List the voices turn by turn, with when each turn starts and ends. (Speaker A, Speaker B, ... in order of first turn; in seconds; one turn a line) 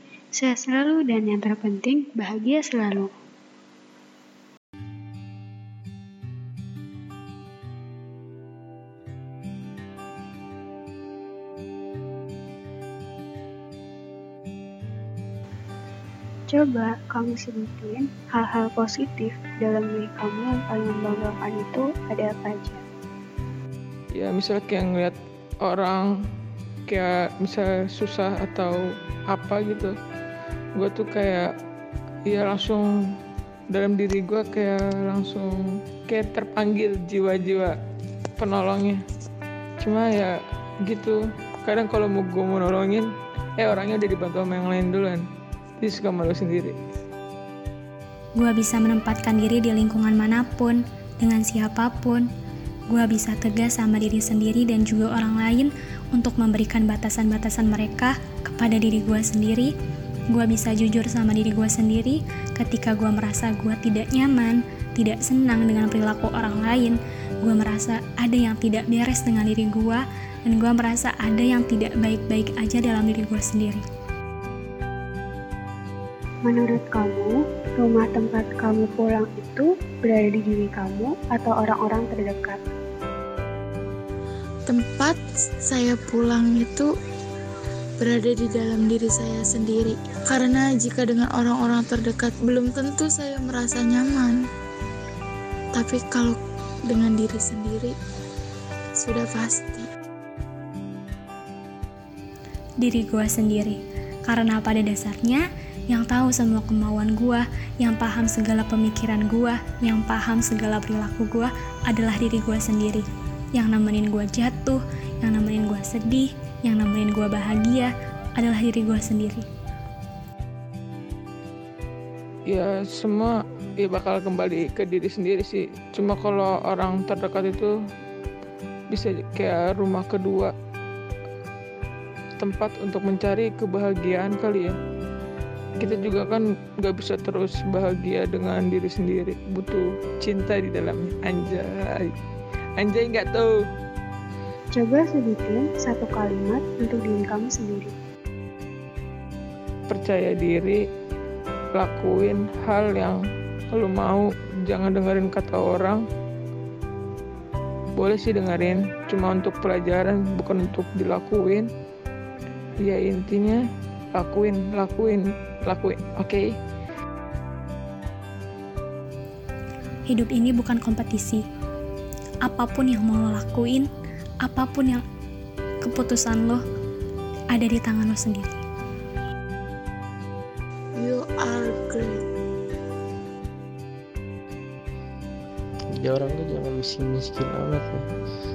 Speaker A: 0.4-3.1
Speaker A: 16.5-22.8
Speaker B: 24.1-26.1
Speaker B: 26.9-29.9
Speaker B: 30.8-31.5
Speaker B: 32.3-32.9
Speaker B: 33.7-35.5
Speaker B: 36.1-37.8
Speaker B: 38.4-39.0
Speaker B: 39.8-45.2
Speaker B: 45.8-46.8
Speaker C: 48.4-52.2
Speaker C: 52.9-59.7
Speaker C: 60.3-73.8
Speaker A: 76.4-82.6
Speaker D: 84.7-86.9
Speaker D: 88.0-94.4
Speaker D: 95.7-98.0
Speaker D: 99.0-99.9
Speaker C: 102.8-119.5
Speaker B: 122.5-127.7
Speaker B: 128.9-130.5
Speaker B: 132.4-134.8
Speaker B: 135.8-142.1
Speaker B: 142.8-143.6
Speaker A: 144.7-147.9
Speaker B: 149.9-150.8
Speaker B: 151.7-153.2
Speaker B: 153.7-156.0
Speaker B: 158.0-161.7
Speaker B: 162.8-163.6
Speaker B: 164.1-166.5
Speaker C: 170.1-171.4
Speaker C: 172.4-173.9
Speaker C: 174.4-175.0
Speaker C: 175.8-176.6
Speaker C: 177.5-178.6
Speaker D: 181.0-182.2
Speaker E: 185.9-188.1